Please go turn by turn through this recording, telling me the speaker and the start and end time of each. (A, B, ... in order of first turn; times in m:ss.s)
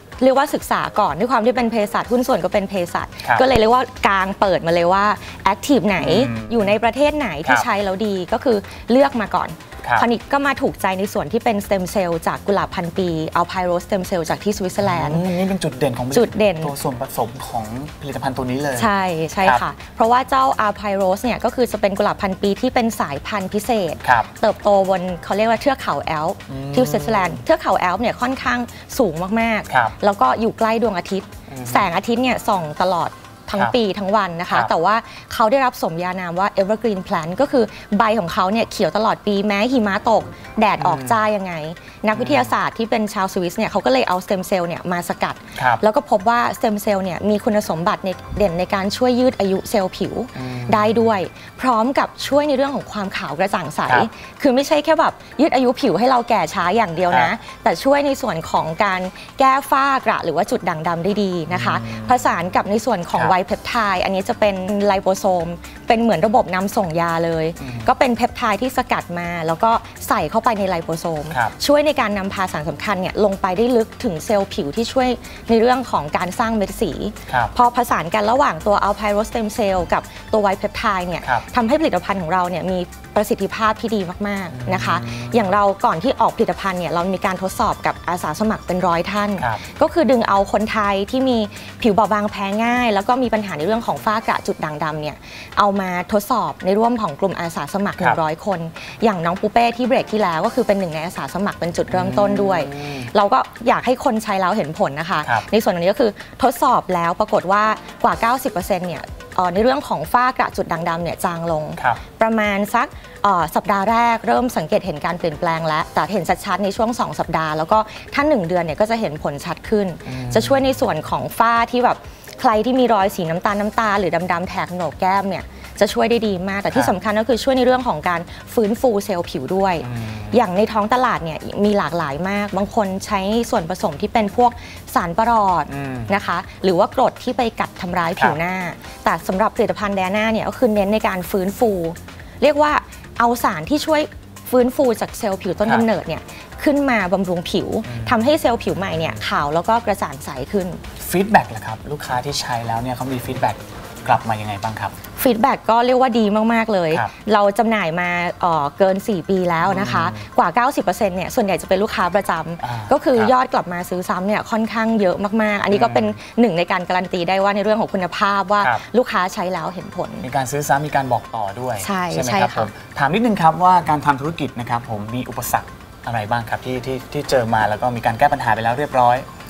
0:00.2-0:15.2 A
0:06.0-0:06.7 B
0:14.8-0:18.9 B
0:16.1-0:16.7 A
0:18.8-2:30.8 A
0:24.0-0:24.3 B
0:26.5-0:27.4 B
0:29.7-0:29.9 B
0:31.5-0:31.9 B
0:40.8-0:41.2 B
0:42.1-0:42.5 B
0:45.6-0:45.8 B
0:50.3-0:51.0 B
1:01.5-1:02.2 B
1:07.6-1:07.9 B
1:11.3-1:11.5 B
1:24.5-1:25.5 B
1:41.9-1:43.1 B
2:00.0-2:00.7 B
2:09.8-2:10.4 B
2:15.7-2:16.1 B
2:27.8-2:28.2 B
2:31.0-2:34.9 B
2:35.2-2:50.2 A
2:39.6-2:40.3 B
2:42.6-2:43.3 B
2:45.7-2:46.2 B
2:50.2-2:59.2 B
2:51.8-2:52.7 A